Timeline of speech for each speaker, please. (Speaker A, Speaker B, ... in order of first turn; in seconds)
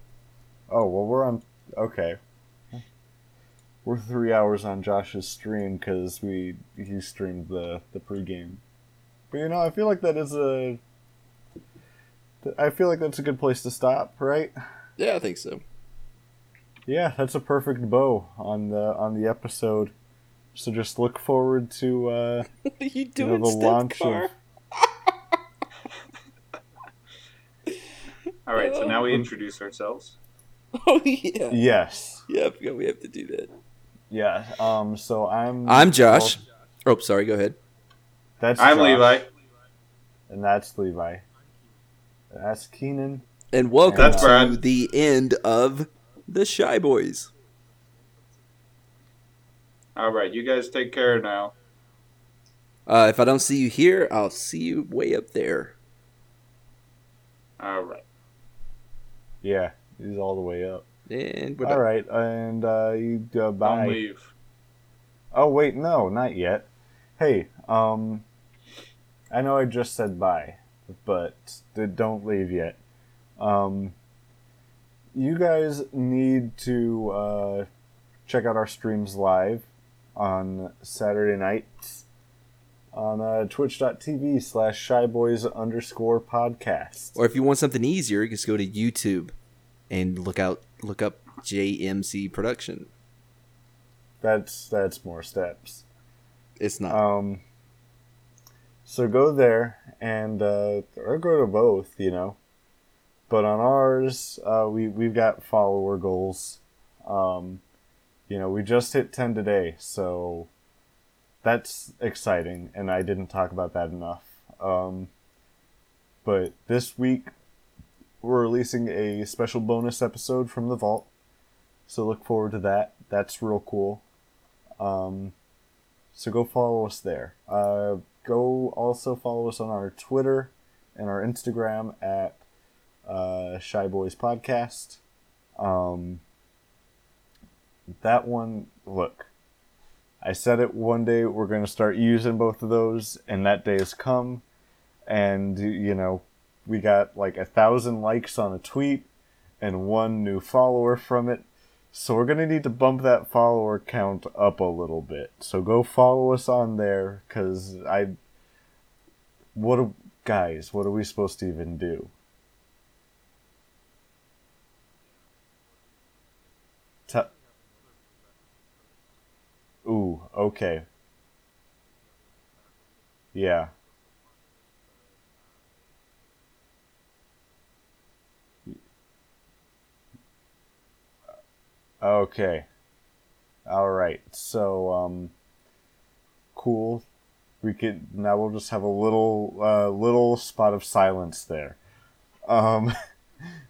Speaker A: 0.7-2.2, 3.9-8.6, 9.3-10.8, 12.4-14.6, 16.9-19.9, 20.6-22.5, 23.2-24.3, 31.5-32.2, 34.1-36.4, 38.4-39.2, 40.3-41.2, 42.3-43.2, 43.9-44.4, 59.4-60.9, 61.6-64.0, 65.3-68.2, 69.3-72.8, 73.4-74.0, 75.1-77.7, 78.3-82.0, 82.9-87.2, 94.2-95.8, 96.9-97.4, 98.8-102.4, 103.3-107.6, 108.3-110.5, 111.4-115.1, 116.2-117.3, 118.2-121.1, 121.9-124.0, 124.8-125.3, 126.1-132.4, 133.1-135.0, 135.6-136.2, 138.0-139.3, 140.2-144.4, 145.1-149.1, 149.6-158.2, 159.6-162.1, 169.8-170.9, 173.3-173.7, 182.0-182.7, 183.7-185.3, 186.6-187.1, 187.6-191.8, 192.5-192.9
Speaker B: 15.0-15.6, 22.6-24.3, 28.6-29.2, 30.8-31.6, 32.3-33.5, 35.7-37.6, 43.5-47.3, 52.9-55.8, 61.1-61.8, 87.2-89.3, 89.9-92.9, 96.6-97.0
Speaker C: 28.5-30.2, 38.6-39.3, 44.0-44.6, 50.0-51.5, 57.6-58.0, 63.6-64.3